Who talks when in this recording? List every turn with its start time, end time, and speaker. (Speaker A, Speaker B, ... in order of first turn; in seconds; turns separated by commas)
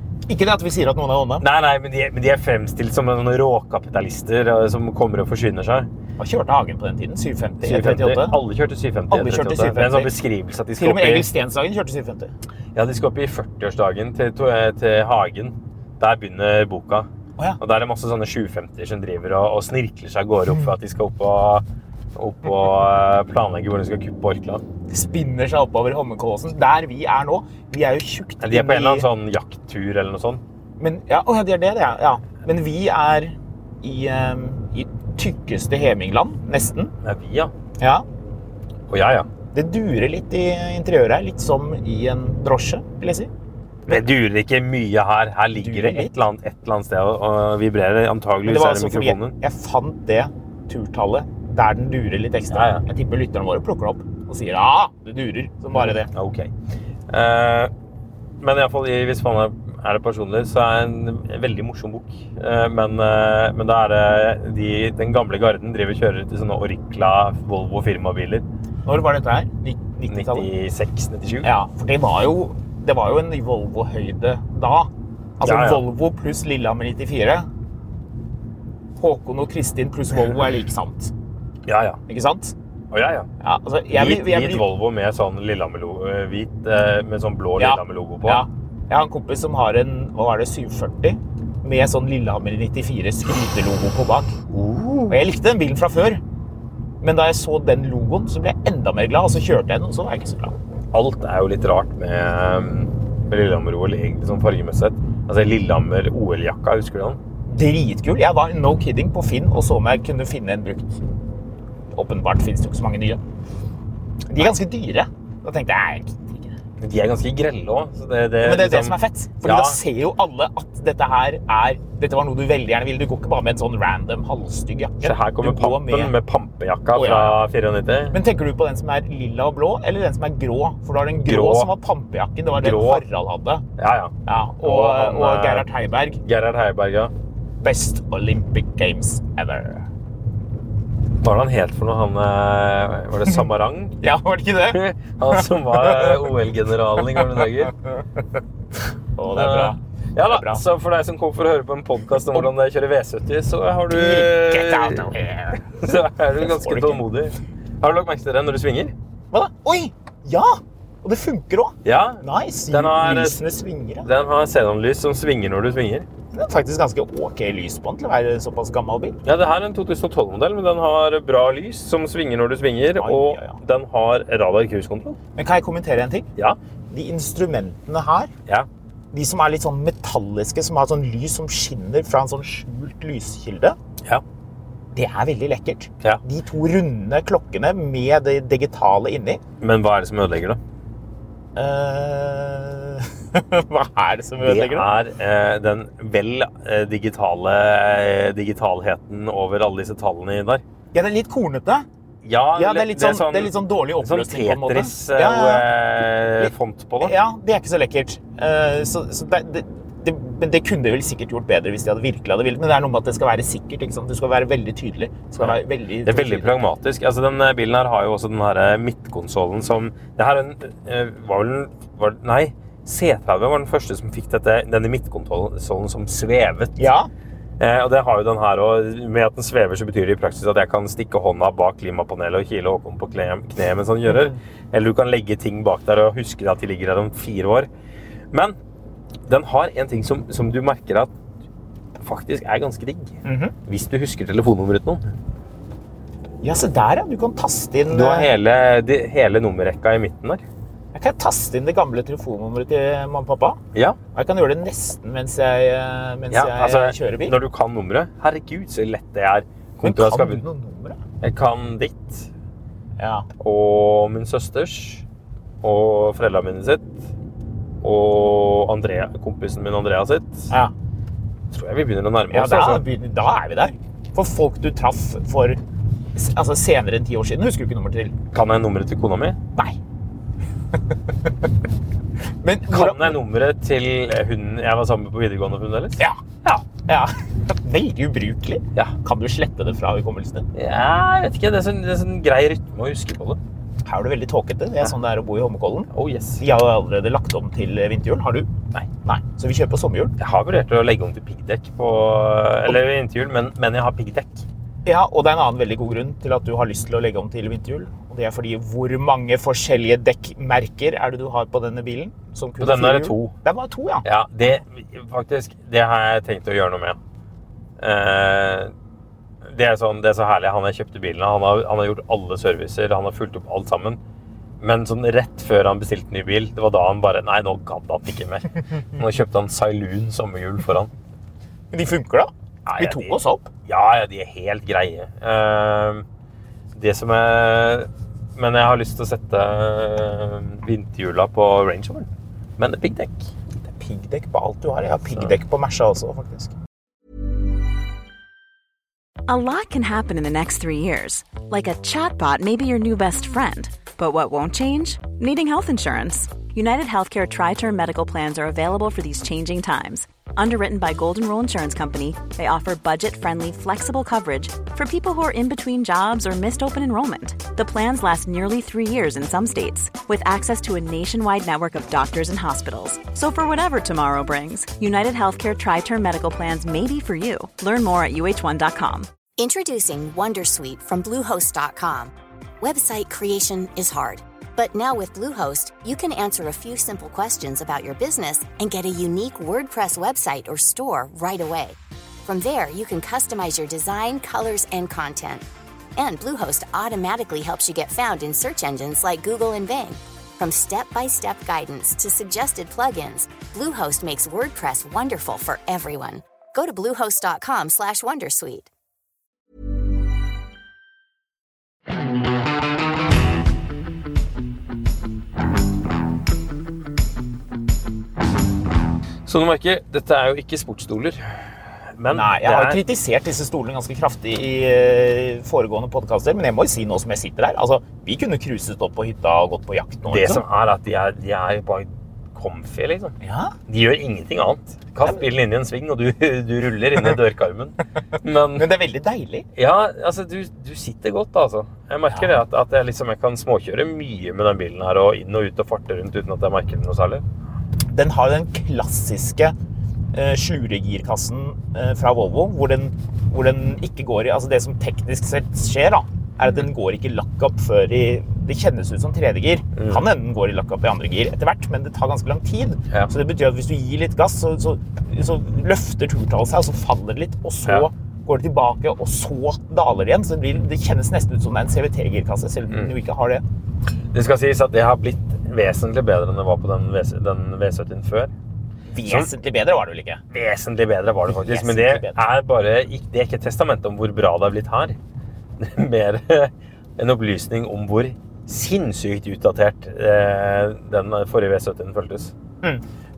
Speaker A: 0.3-1.5, Speaker B: 1.4-5.9, Speaker A: 6.2-8.4, Speaker B: 7.6-11.3, Speaker A: 9.1-10.1, Speaker A: 10.8-12.3, Speaker B: 12.8-17.1, Speaker B: 17.6-24.6, Speaker A: 24.9-29.1, Speaker B: 28.4-30.4, Speaker A: 30.8-36.9, Speaker B: 37.0-37.5, Speaker A: 37.8-38.0, Speaker B: 38.9-39.3, Speaker A: 39.5-43.3, Speaker B: 43.9-49.4, Speaker A: 45.6-46.1, Speaker A: 48.5-56.1, Speaker B: 52.5-52.8, Speaker B: 55.7-56.5, Speaker B: 57.1-57.7, Speaker B: 58.4-68.5, Speaker A: 68.8-70.5, Speaker B: 70.1-71.5, Speaker A: 71.4-77.5, Speaker B: 75.4-75.8, Speaker A: 79.0-81.1, Speaker B: 81.7-82.0, Speaker A: 82.1-82.5, Speaker B: 82.9-83.3, Speaker A: 83.4-84.6, Speaker B: 83.9-88.5, Speaker A: 87.6-94.4, Speaker B: 94.5-95.2, Speaker A: 95.1-96.2, Speaker A: 97.0-100.5, Speaker B: 100.9-107.2, Speaker A: 107.5-111.0, Speaker A: 111.9-113.2, Speaker A: 114.3-116.5, Speaker B: 116.8-119.8, Speaker A: 118.4-126.1, Speaker B: 125.0-128.2, Speaker A: 127.0-127.4, Speaker A: 128.1-133.6, Speaker B: 131.2-131.7, Speaker B: 132.6-133.0, Speaker B: 133.8-135.7, Speaker A: 134.2-136.2, Speaker B: 136.2-137.1, Speaker A: 137.6-139.9, Speaker B: 141.2-144.0, Speaker A: 144.0-146.3, Speaker B: 144.7-147.7, Speaker A: 147.0-147.6, Speaker A: 149.2-150.6, Speaker B: 149.3-155.1, Speaker A: 153.9-155.7, Speaker B: 155.7-158.9, Speaker A: 156.4-157.0, Speaker A: 159.3-164.1, Speaker B: 161.8-163.4, Speaker B: 164.0-166.1, Speaker A: 166.3-169.2, Speaker B: 169.2-175.2, Speaker A: 173.0-173.6, Speaker A: 175.4-176.3, Speaker A: 176.9-178.3, Speaker A: 179.1-183.8, Speaker A: 184.9-189.4, Speaker B: 189.6-190.6, Speaker A: 191.6-194.9, Speaker B: 194.4-200.6, Speaker A: 200.9-201.9, Speaker B: 202.2-207.1, Speaker A: 202.6-205.7, Speaker A: 206.4-216.5, Speaker B: 215.4-226.8, Speaker A: 226.8-227.1, Speaker B: 227.6-237.7, Speaker A: 234.1-234.4, Speaker B: 238.3-238.6, Speaker B: 239.3-241.1, Speaker B: 242.0-245.1, Speaker A: 243.2-243.5, Speaker A: 246.4-248.3, Speaker B: 247.9-250.4, Speaker A: 250.9-253.6, Speaker B: 253.7-254.0, Speaker A: 254.1-257.4, Speaker B: 256.3-260.4, Speaker A: 259.8-261.0, Speaker B: 261.2-262.3, Speaker A: 263.0-263.3, Speaker B: 263.4-265.0, Speaker B: 265.6-267.0, Speaker B: 267.8-270.5, Speaker B: 271.5-272.8, Speaker A: 272.3-275.6, Speaker A: 276.1-278.2, Speaker B: 278.3-279.4, Speaker A: 282.4-283.1, Speaker B: 282.7-286.6, Speaker A: 286.9-290.5, Speaker B: 290.5-293.4, Speaker A: 293.8-298.5, Speaker B: 295.9-296.4, Speaker A: 299.0-300.1, Speaker B: 300.2-304.5, Speaker A: 304.8-314.1, Speaker B: 312.6-313.3, Speaker B: 314.0-317.0, Speaker B: 317.8-318.7, Speaker B: 319.4-324.0, Speaker B: 324.6-330.9, Speaker A: 331.7-333.5, Speaker B: 332.7-336.0, Speaker B: 336.7-343.3, Speaker A: 343.6-346.5, Speaker C: 349.3-379.1, Speaker D: 379.4-395.4, Speaker D: 396.0-408.7, Speaker B: 419.2-421.2, Speaker B: 422.0-422.8, Speaker A: 422.1-430.4, Speaker B: 430.1-433.2, Speaker A: 433.2-433.6, Speaker B: 433.7-438.7, Speaker A: 438.5-439.5, Speaker B: 439.6-447.2, Speaker A: 447.9-449.5, Speaker A: 450.1-473.4, Speaker B: 459.8-460.0, Speaker B: 474.1-478.3, Speaker A: 478.9-480.2, Speaker B: 479.0-479.3, Speaker B: 480.3-485.0, Speaker A: 481.3-482.2, Speaker B: 485.6-492.3